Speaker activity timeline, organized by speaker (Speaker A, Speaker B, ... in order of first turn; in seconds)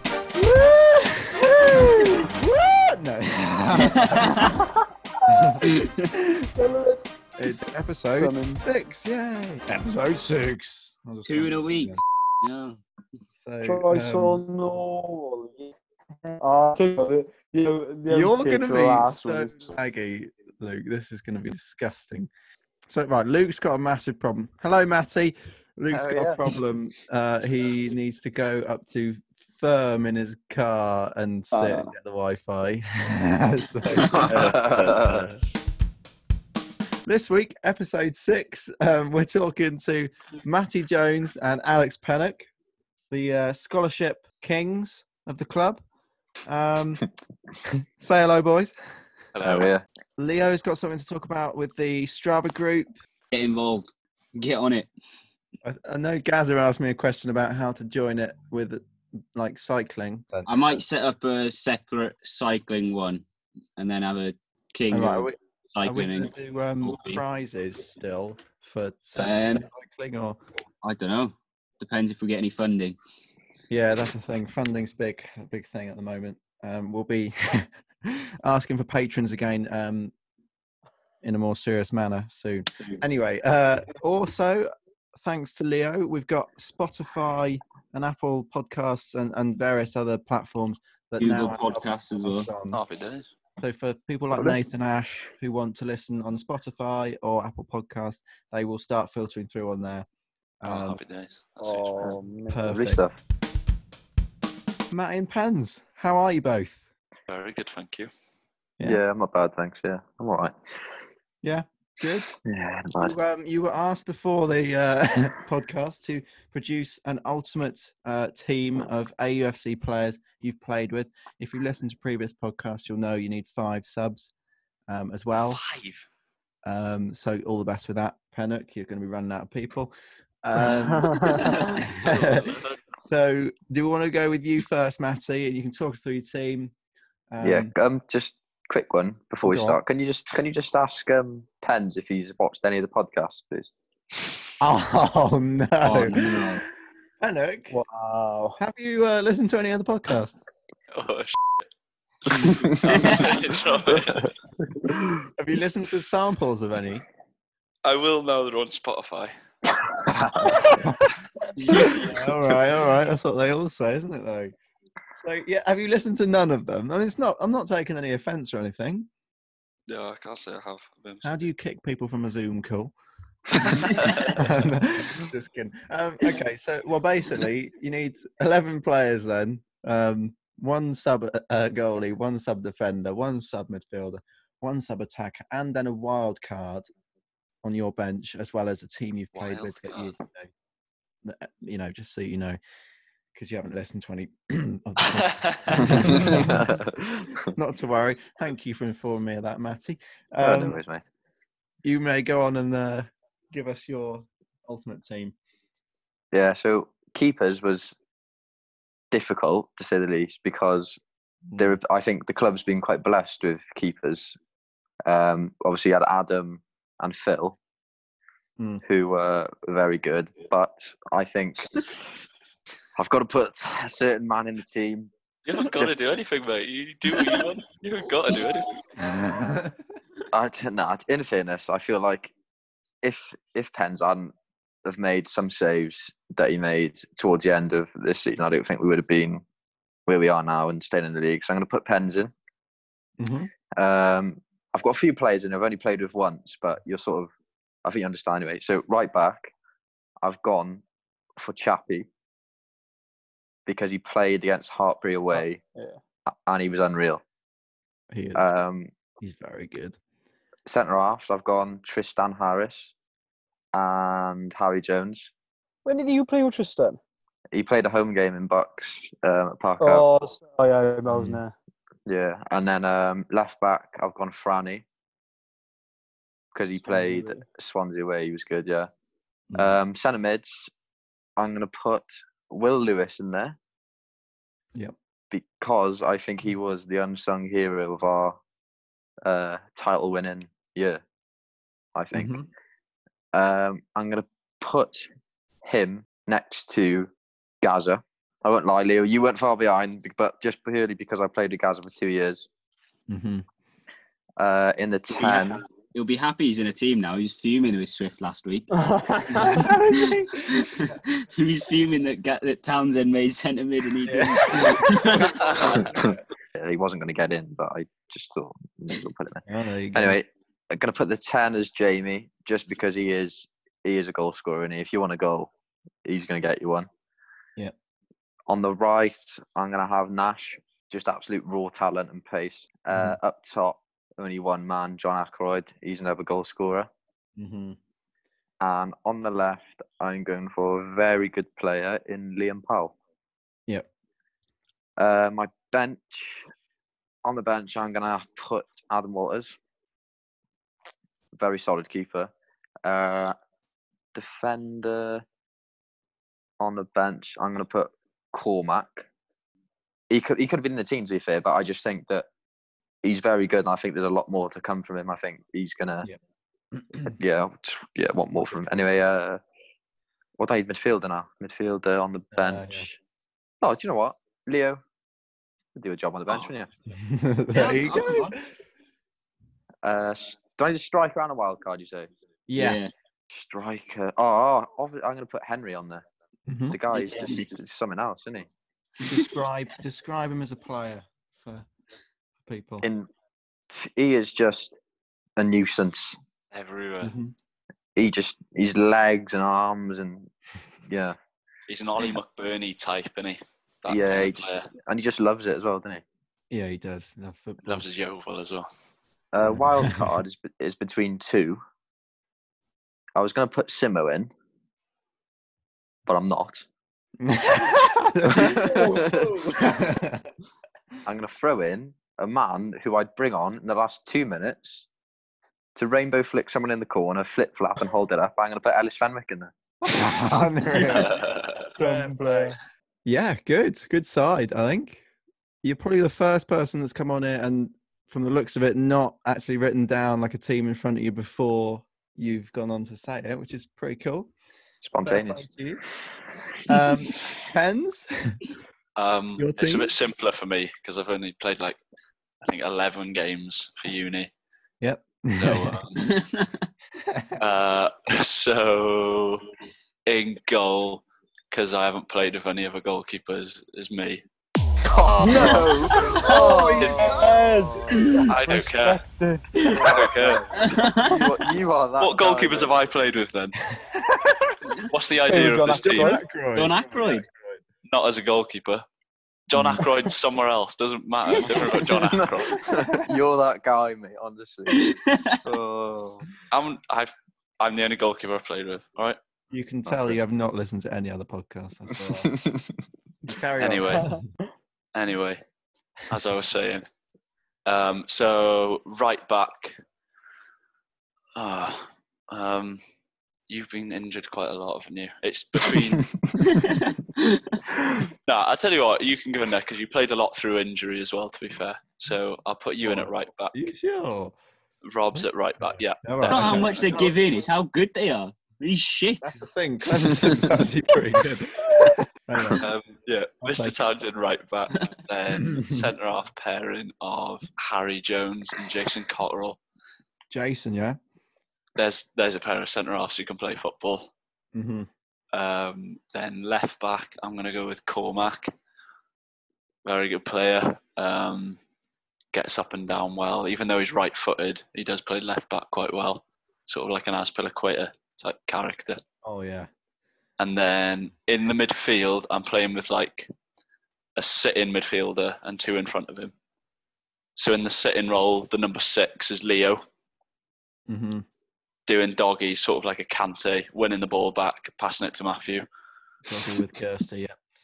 Speaker A: 0.3-4.6, 5.3-6.5, 7.4-12.0, 13.3-14.4, 18.1-22.3, 22.9-35.4, 37.0-42.5, 43.1-45.8, 46.5-47.0, 47.6-48.7, 50.2-52.9, 55.6-60.6, 64.9-70.4, 73.7-80.1, 81.2-92.8, 93.6-100.0, 100.6-101.0, 102.5-103.0, 104.9-106.8, 111.4-112.4, 113.0-124.3, 124.9-125.6, 126.6-129.9, 130.4-136.7, 137.3-137.7, 139.4-139.8, 144.6-146.6, 147.2-147.8, 148.6-150.4, 155.1-157.0, 160.4-164.5, 165.1-169.1, 171.2-172.9, 173.5-186.9, 187.6-190.5, 191.2-192.6, 193.3-196.8, 197.4-200.8, 201.8-205.3, 211.5-211.8, 229.0-229.8, 243.2-243.5, 258.1-258.6, 259.2-260.0, 271.1-271.4, 292.1-292.5, 303.1-303.4, 309.4-310.7, 314.1-316.2, 319.5-320.2, 332.9-333.2, 337.4-337.8, 366.7-367.1, 368.4-368.7, 372.3-372.9, 376.9-378.4, 382.5-382.8, 386.5-386.8, 389.0-391.7, 392.4-392.8, 397.0-397.3, 406.5-407.8, 409.4-410.2, 417.2-420.3, 429.8-431.2, 431.8-435.0, 435.6-444.3, 445.0-445.8, 446.7-448.4, 449.4-449.9, 454.8-455.8, 457.0-457.3, 465.3-467.3, 467.9-468.3, 473.7-474.6, 475.7-477.6, 479.5-479.8, 482.7-483.0, 489.5-492.3, 493.2-494.2, 512.9-514.3, 516.0-517.1, 519.2-522.7, 523.4-523.8, 525.3-525.9, 530.3-531.0, 534.5-534.9, 549.2-549.7, 560.9-561.2, 566.2-567.4
Speaker B: 3.8-4.6, 11.2-12.8, 53.3-54.9, 60.5-63.2, 63.8-66.3, 66.8-67.2, 69.2-69.6, 70.8-73.0, 91.2-92.5, 145.8-146.7, 161.6-161.9, 305.1-308.7, 309.3-315.6, 377.5-378.4, 382.6-382.9, 386.9-387.4, 456.0-456.5, 470.6-471.3, 476.5-477.2, 484.7-485.2, 506.5-507.4, 516.2-519.4, 520.0-520.6
Speaker C: 5.3-5.9, 6.4-7.3, 8.1-8.6, 13.6-15.7, 16.2-19.7, 31.5-31.9, 101.6-102.6, 130.7-131.7, 147.7-148.6, 255.3-256.0, 265.8-267.0, 269.8-271.5, 276.8-277.4, 308.7-309.7, 431.8-432.6, 465.2-469.8, 475.3-476.2
Speaker D: 25.9-26.4, 33.9-35.3, 49.4-49.8, 102.0-103.2, 108.8-111.0, 112.4-113.1, 137.4-143.7, 152.4-153.1, 160.1-160.6, 195.8-197.4, 200.4-201.1, 206.3-207.9, 209.1-211.0, 211.6-214.3, 215.0-217.6, 218.8-221.9, 222.9-225.1, 225.6-225.9, 230.3-232.3, 233.0-234.3, 234.8-239.4, 240.1-242.3, 243.7-247.3, 247.8-249.5, 250.2-250.8, 251.4-252.1, 253.7-255.6, 256.3-257.2, 258.3-258.9, 260.6-262.9, 263.7-265.3, 267.5-270.1, 272.1-274.8, 276.5-278.9, 279.5-280.7, 281.4-283.6, 285.3-288.4, 289.2-291.0, 291.9-292.3, 293.3-295.1, 295.6-297.1, 297.6-302.5, 304.4-305.6, 315.7-325.5, 326.0-326.9, 328.5-336.9, 338.6-342.9, 345.0-346.5, 347.2-349.6, 351.4-352.3, 352.8-353.3, 354.1-355.2, 356.6-359.1, 360.1-362.2, 363.0-366.1, 367.1-369.4, 370.4-372.9, 373.6-374.8, 375.8-376.7, 379.8-382.1, 383.3-386.0, 386.7-388.5, 392.8-393.1, 393.7-394.8, 395.4-396.2, 397.9-400.3, 400.9-401.1, 403.9-406.0, 409.3-411.6, 413.1-414.3, 416.1-416.7, 418.2-419.4, 421.0-424.9, 425.8-429.5, 444.8-445.4, 464.8-468.2, 469.5-472.8, 481.5-486.2, 492.2-492.7, 506.0-506.4
Speaker E: 49.3-49.7, 92.7-93.2, 100.6-102.0, 107.3-108.1, 125.3-126.1, 131.5-132.8, 150.9-151.6, 152.2-154.3, 157.8-159.3, 169.9-171.3, 173.6-174.4, 189.3-190.1, 195.1-196.1, 225.4-228.7, 396.5-397.1, 401.7-404.7, 407.6-408.6, 430.8-431.7, 449.0-451.8, 452.4-454.3, 455.4-456.1, 457.4-459.5, 460.1-464.2, 468.3-469.0, 469.8-470.4, 472.0-473.6, 474.9-476.2, 477.9-478.8, 479.5-482.7, 486.5-489.2, 493.6-494.1, 494.9-495.4, 496.1-496.8, 497.6-499.8, 501.4-502.8, 503.5-506.6, 508.1-513.7, 514.8-517.1, 522.6-529.6, 531.8-534.1, 535.3-538.5, 539.8-541.6, 542.3-549.0, 550.4-553.3, 554.1-556.3, 557.4-559.8, 561.9-565.6